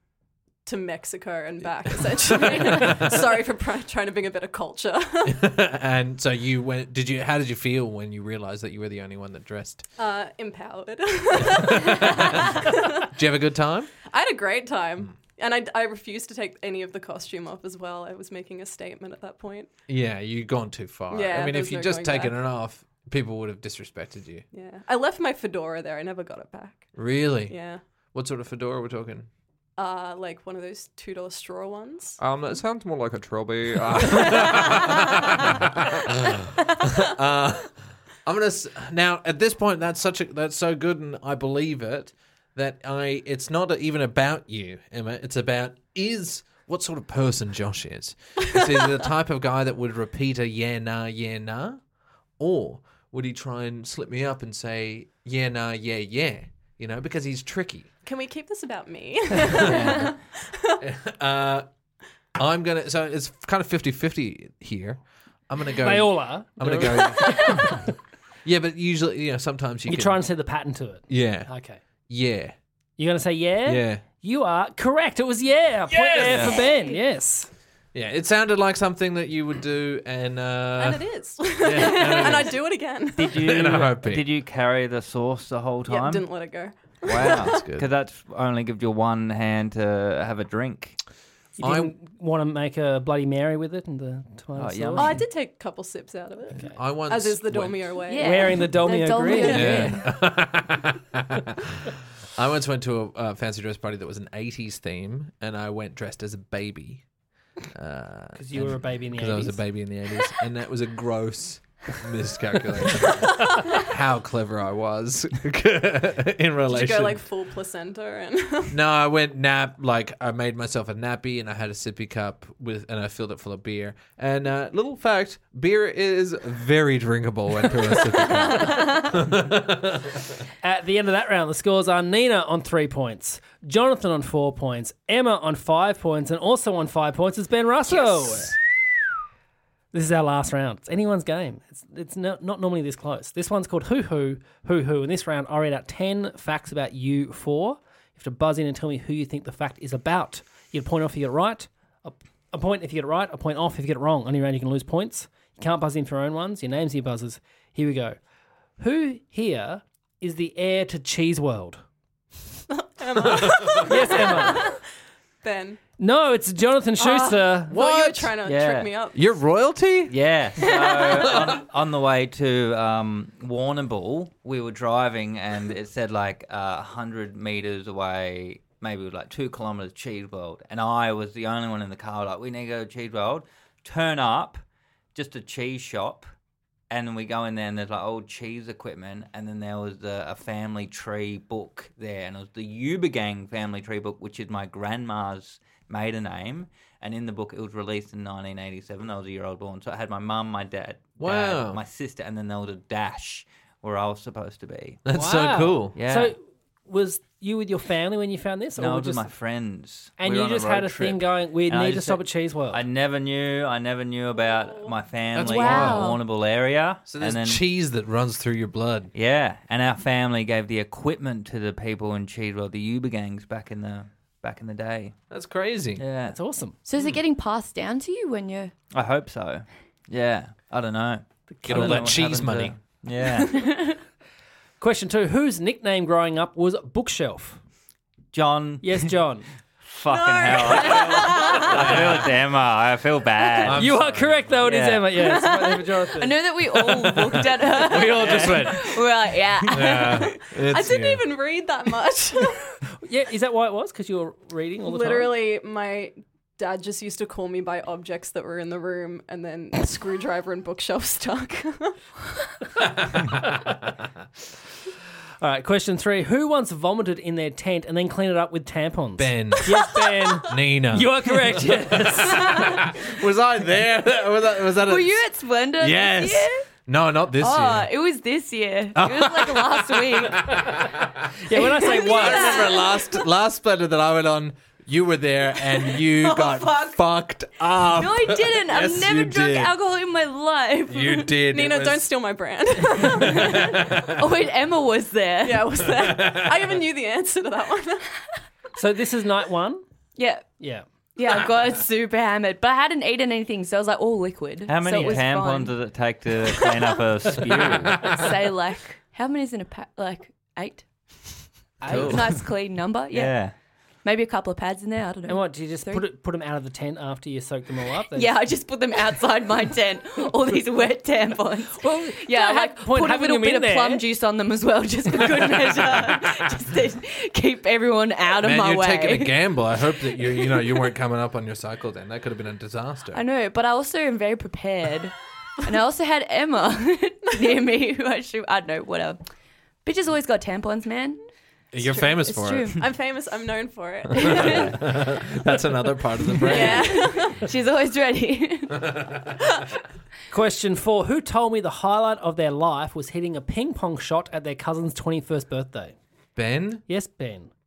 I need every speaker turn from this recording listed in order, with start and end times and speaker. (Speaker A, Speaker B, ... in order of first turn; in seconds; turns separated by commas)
Speaker A: 0.6-5.4, Speaker B: 2.0-3.2, Speaker B: 5.2-9.8, Speaker A: 10.0-13.1, Speaker B: 11.5-13.9, Speaker A: 14.1-19.7, Speaker B: 19.9-24.4, Speaker A: 21.1-22.3, Speaker A: 24.5-27.8, Speaker B: 26.9-27.6, Speaker B: 28.1-29.3, Speaker A: 29.8-32.2, Speaker B: 32.2-51.8, Speaker B: 52.4-57.9, Speaker A: 58.0-60.8, Speaker B: 59.5-59.9, Speaker C: 59.7-60.1, Speaker B: 60.8-61.7, Speaker B: 62.3-67.8, Speaker D: 65.8-67.6, Speaker B: 68.4-70.2, Speaker D: 69.9-71.8, Speaker B: 71.1-71.5, Speaker B: 72.1-72.5, Speaker D: 73.0-77.5, Speaker B: 73.6-74.0, Speaker A: 76.0-77.0, Speaker B: 76.2-76.5, Speaker B: 77.9-81.0, Speaker A: 80.8-83.3, Speaker B: 81.6-82.6, Speaker C: 83.2-86.3, Speaker B: 83.3-84.2, Speaker A: 85.8-87.6, Speaker C: 87.0-91.0, Speaker B: 87.2-87.9, Speaker D: 91.6-95.2, Speaker B: 91.6-91.9, Speaker C: 94.5-95.2, Speaker A: 95.0-98.8, Speaker B: 96.7-98.0, Speaker E: 98.1-100.1, Speaker D: 98.2-100.0, Speaker B: 99.3-107.1, Speaker B: 107.7-117.3, Speaker D: 108.3-109.6, Speaker A: 116.7-118.8, Speaker B: 118.7-130.3, Speaker D: 130.6-138.5, Speaker D: 139.9-158.2, Speaker D: 158.8-161.8, Speaker A: 162.7-164.8, Speaker B: 163.4-163.8, Speaker D: 163.8-164.7, Speaker A: 165.4-165.8, Speaker D: 166.0-167.7, Speaker A: 167.0-169.2, Speaker B: 167.7-168.3, Speaker C: 168.4-168.9, Speaker B: 169.1-170.1, Speaker C: 170.1-184.6, Speaker B: 171.2-171.6, Speaker C: 185.1-186.3, Speaker C: 186.9-205.0, Speaker B: 201.2-201.8, Speaker B: 205.1-205.9, Speaker D: 205.1-209.3, Speaker C: 205.9-206.3, Speaker C: 208.8-217.6, Speaker D: 210.2-212.8, Speaker A: 214.4-214.9, Speaker B: 215.3-216.2, Speaker E: 215.3-216.2, Speaker B: 217.1-219.1, Speaker C: 219.1-225.2, Speaker B: 225.3-226.0, Speaker C: 226.0-226.4, Speaker D: 226.3-226.8, Speaker E: 226.8-228.7, Speaker C: 228.9-233.7, Speaker D: 231.5-232.1, Speaker B: 231.6-232.7, Speaker E: 233.5-234.0, Speaker D: 234.8-237.6, Speaker C: 238.3-239.1, Speaker D: 238.8-239.5, Speaker C: 239.8-243.9, Speaker E: 240.5-242.0, Speaker B: 241.6-242.2, Speaker B: 243.6-244.6, Speaker D: 243.7-246.4, Speaker C: 244.6-245.1, Speaker E: 245.1-250.3, Speaker B: 247.1-249.1, Speaker C: 248.2-248.5, Speaker B: 249.7-251.2, Speaker A: 250.4-252.7, Speaker D: 253.0-255.3, Speaker A: 254.8-262.0, Speaker D: 265.4-272.8, Speaker B: 269.2-269.9, Speaker B: 270.4-275.2, Speaker E: 274.8-276.6, Speaker B: 275.8-277.9, Speaker E: 277.4-280.6, Speaker B: 278.9-281.3, Speaker D: 281.4-282.7, Speaker E: 281.5-283.1, Speaker B: 281.8-289.7, Speaker E: 285.8-286.9, Speaker E: 287.8-291.4, Speaker B: 290.9-292.1, Speaker A: 291.5-293.8, Speaker B: 293.2-294.2, Speaker E: 293.2-295.7, Speaker A: 295.4-298.1, Speaker B: 295.9-296.6, Speaker D: 298.8-299.8, Speaker E: 300.1-300.5, Speaker D: 300.6-300.8, Speaker E: 301.1-305.7, Speaker C: 304.7-308.2, Speaker D: 304.9-305.2, Speaker E: 308.0-310.9, Speaker D: 311.8-312.3, Speaker E: 311.9-313.5, Speaker C: 311.9-312.4, Speaker C: 313.1-313.5, Speaker E: 314.0-316.1, Speaker D: 315.3-318.3, Speaker E: 318.1-329.4, Speaker D: 321.8-324.0, Speaker B: 328.4-333.2, Speaker E: 333.1-339.2, Speaker E: 339.8-341.2, Speaker B: 341.7-342.8, Speaker A: 341.8-342.1, Speaker E: 342.1-342.8, Speaker A: 342.8-344.9, Speaker E: 344.1-344.7, Speaker B: 344.1-347.1, Speaker E: 346.4-349.0, Speaker A: 346.4-347.4, Speaker D: 350.3-355.9, Speaker B: 356.4-356.8, Speaker D: 356.9-357.5